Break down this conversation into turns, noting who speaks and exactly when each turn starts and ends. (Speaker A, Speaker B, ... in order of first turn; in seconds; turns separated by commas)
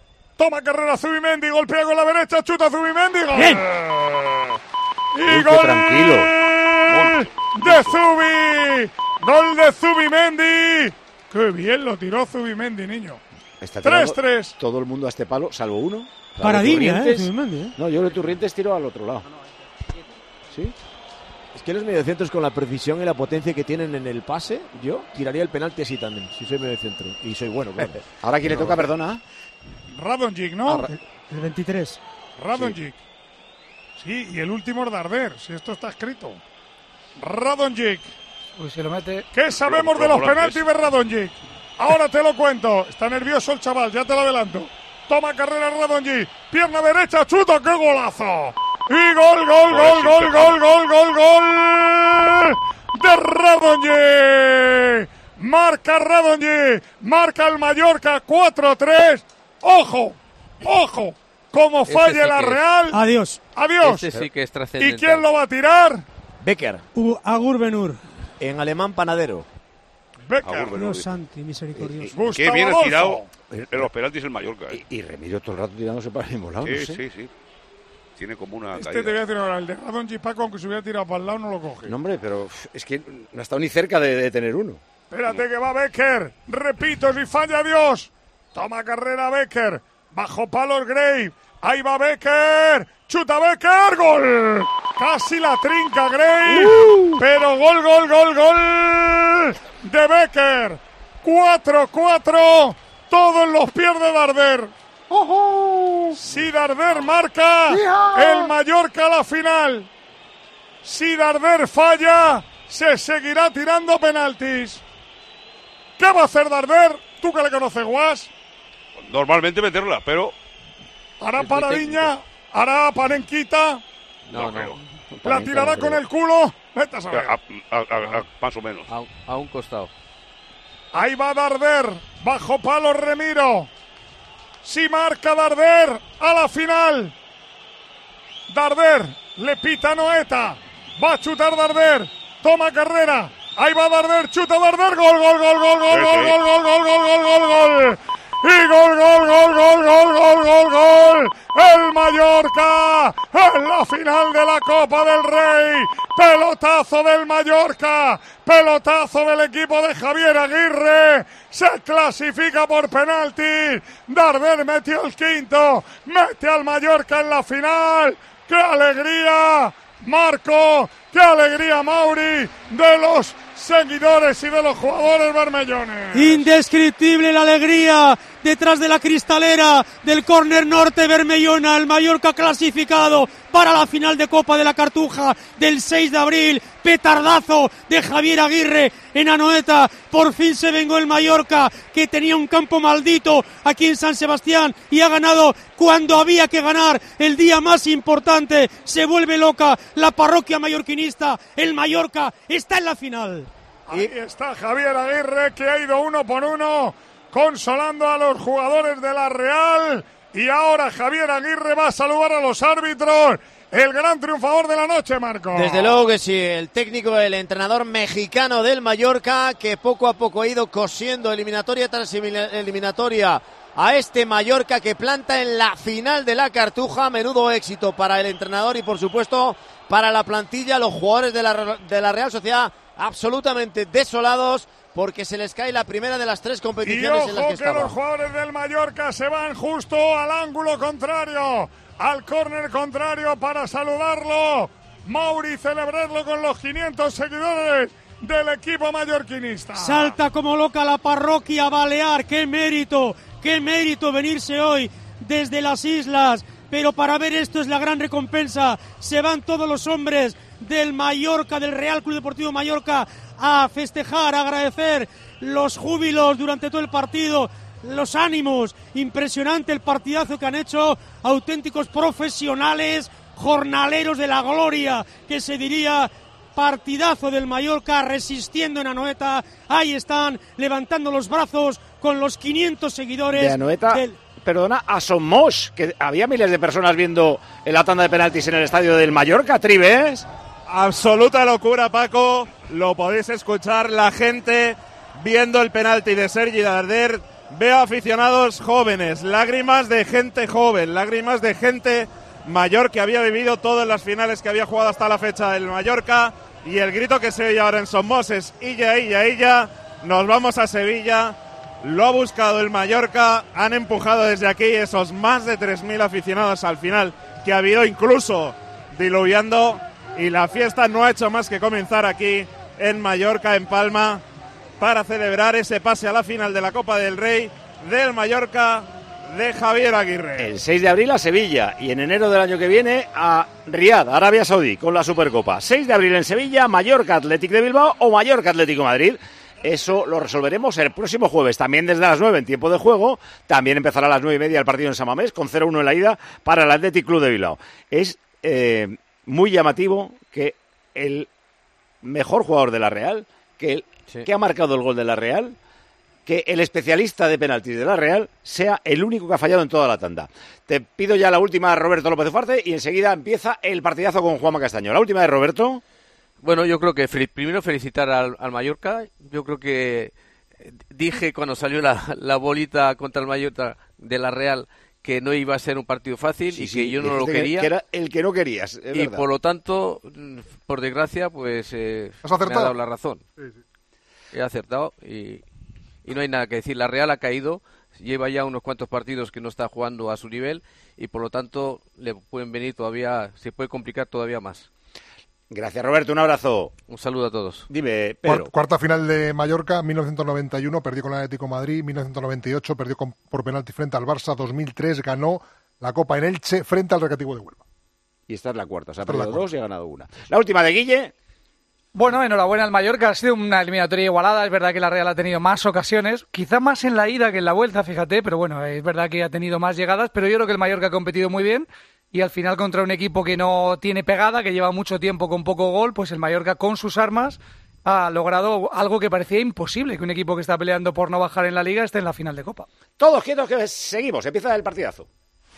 Speaker A: 0.4-4.6, Speaker B: 3.3-3.6, Speaker A: 5.1-13.2, Speaker C: 5.2-6.3, Speaker D: 6.9-8.0, Speaker C: 13.6-19.2, Speaker A: 13.8-14.5, Speaker B: 16.4-17.7, Speaker E: 21.5-28.8, Speaker C: 27.8-29.2, Speaker A: 29.9-30.9, Speaker B: 30.9-32.0, Speaker A: 32.4-33.0, Speaker A: 34.0-36.4, Speaker A: 37.2-38.1, Speaker F: 38.6-39.3, Speaker A: 39.3-64.1, Speaker D: 39.5-40.6, Speaker D: 49.7-50.6, Speaker G: 61.9-62.6, Speaker B: 62.9-63.4, Speaker G: 63.8-65.3, Speaker A: 64.8-66.0, Speaker E: 66.4-66.8, Speaker B: 66.9-68.0, Speaker E: 68.4-69.5, Speaker A: 70.2-70.8, Speaker D: 70.4-71.2, Speaker B: 70.7-72.1, Speaker C: 71.8-72.1, Speaker A: 72.1-73.3, Speaker D: 72.2-74.8, Speaker C: 73.5-73.9, Speaker C: 74.7-77.0, Speaker D: 76.6-77.3, Speaker D: 78.2-79.2, Speaker A: 78.7-81.9, Speaker C: 81.8-84.8, Speaker A: 85.1-104.7, Speaker A: 106.2-109.9, Speaker A: 110.8-114.8, Speaker A: 116.0-118.3, Speaker D: 119.0-120.3, Speaker A: 121.2-123.8, Speaker G: 121.4-122.1, Speaker G: 124.3-124.8, Speaker D: 124.3-124.8, Speaker C: 125.2-126.0, Speaker A: 125.2-127.4, Speaker D: 127.1-128.9, Speaker G: 128.9-129.9, Speaker A: 130.9-133.7, Speaker A: 134.6-137.1, Speaker A: 138.5-176.5, Speaker D: 145.9-146.3, Speaker B: 176.1-203.5, Speaker A: 203.9-216.0, Speaker E: 215.5-237.9, Speaker A: 236.8-250.2, Speaker B: 249.7-284.2, Speaker C: 283.3-290.2, Speaker H: 290.7-324.2, Speaker H: 324.8-330.5, Speaker C: 330.4-351.3, Speaker C: 352.0-355.6, Speaker C: 356.2-365.8, Speaker G: 366.4-370.1, Speaker G: 370.6-377.7, Speaker C: 376.5-379.2, Speaker G: 378.9-383.2, Speaker I: 382.2-382.7, Speaker G: 384.3-385.4, Speaker G: 386.0-394.7, Speaker C: 395.5-396.7, Speaker G: 396.9-397.7, Speaker C: 397.7-398.5, Speaker I: 398.2-407.6, Speaker C: 408.3-411.1, Speaker I: 409.1-409.4, Speaker F: 411.9-432.7, Speaker C: 433.0-435.1